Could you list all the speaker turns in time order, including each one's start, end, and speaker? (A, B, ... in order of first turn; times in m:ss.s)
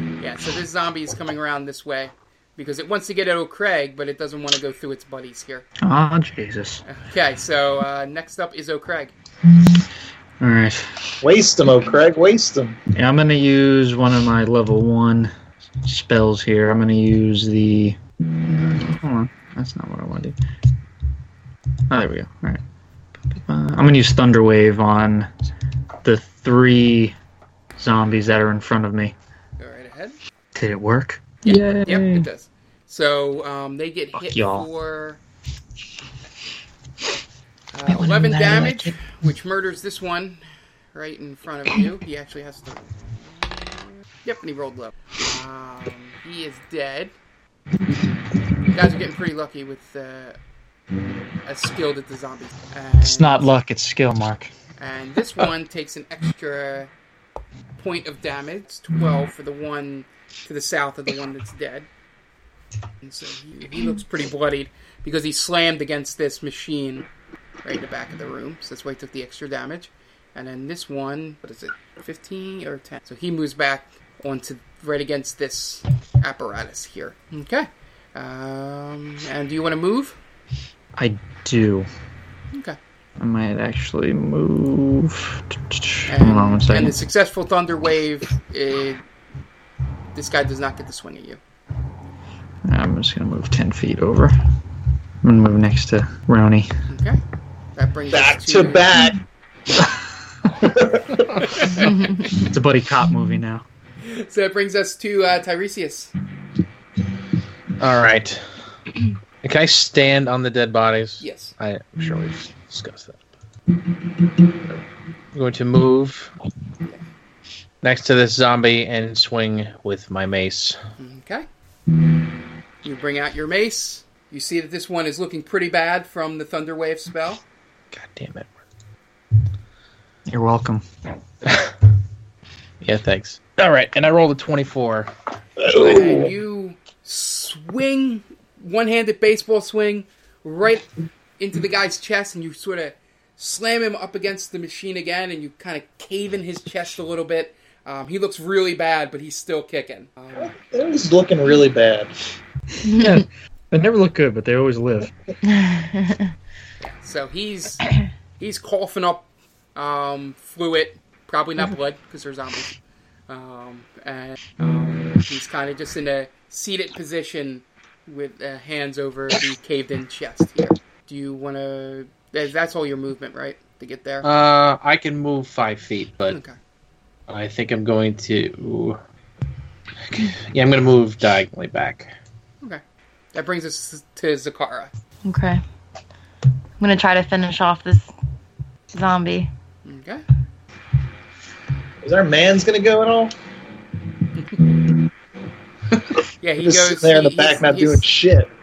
0:00.2-0:05.7 A
0:05.8-0:06.8 B
0:06.8-0:09.1 A
0:10.4-0:11.1 B
0:11.2-0:12.8 C
0:13.0-0:15.3 B
0:15.8-0:20.4 B
0:21.9-0:22.6 B
0:23.3-0:25.3 B
0:26.0-0:27.2 B
0:27.8-0:29.1 B
0:29.6-0:30.2 A
0:30.6-0:32.3 B
0:31.4-0:35.2 A
0:34.2-0:34.7 B
0:37.7-0:40.4 A
0:37.9-0:38.9 D
0:40.9-0:47.1 A
0:48.7-0:50.4 A
0:51.4-0:53.5 A
0:53.0-0:54.5 B
0:54.8-0:56.9 A
0:57.8-1:01.9 A
1:03.0-1:07.1 A
1:07.6-1:20.2 A
1:21.0-1:21.9 B
1:22.5-1:22.8 A
1:23.2-1:27.0 B
1:26.1-1:29.0 A
1:30.2-1:31.4 A
1:32.7-1:34.4 B
1:35.2-1:36.7 B
1:36.9-1:37.2 A
1:37.8-1:38.9 A
1:38.1-1:39.2 C
1:40.5-1:41.4 C
1:41.4-1:42.2 A
1:41.8-1:42.5 D
1:42.3-1:43.6 B
1:44.0-1:46.1 A
1:47.8-1:48.4 E
1:49.4-1:53.2 E
1:51.2-1:51.5 A
1:55.3-1:56.3 E
1:57.8-2:00.8 E
2:01.0-2:01.5 A
2:02.8-2:07.4 A
2:07.9-2:08.5 E
2:10.3-2:10.8 B
2:12.8-2:15.1 E
2:15.6-2:16.3 C
2:15.7-2:30.6 A
2:30.3-2:32.1 C
2:32.8-2:35.1 B
2:32.9-2:33.2 D
2:35.5-2:36.3 D
2:36.8-2:37.8 A
2:38.4-2:42.8 A
2:43.3-2:54.3 A
2:54.2-2:56.4 E
2:56.3-2:56.6 A
2:57.3-2:59.0 E
3:00.1-3:02.1 E
3:03.3-3:04.9 A
3:05.2-3:05.6 D
3:06.8-3:08.1 D
3:08.9-3:09.5 D
3:09.8-3:10.2 A
3:12.0-3:13.4 C
3:14.6-3:15.0 C
3:16.4-3:18.1 A
3:16.6-3:18.5 C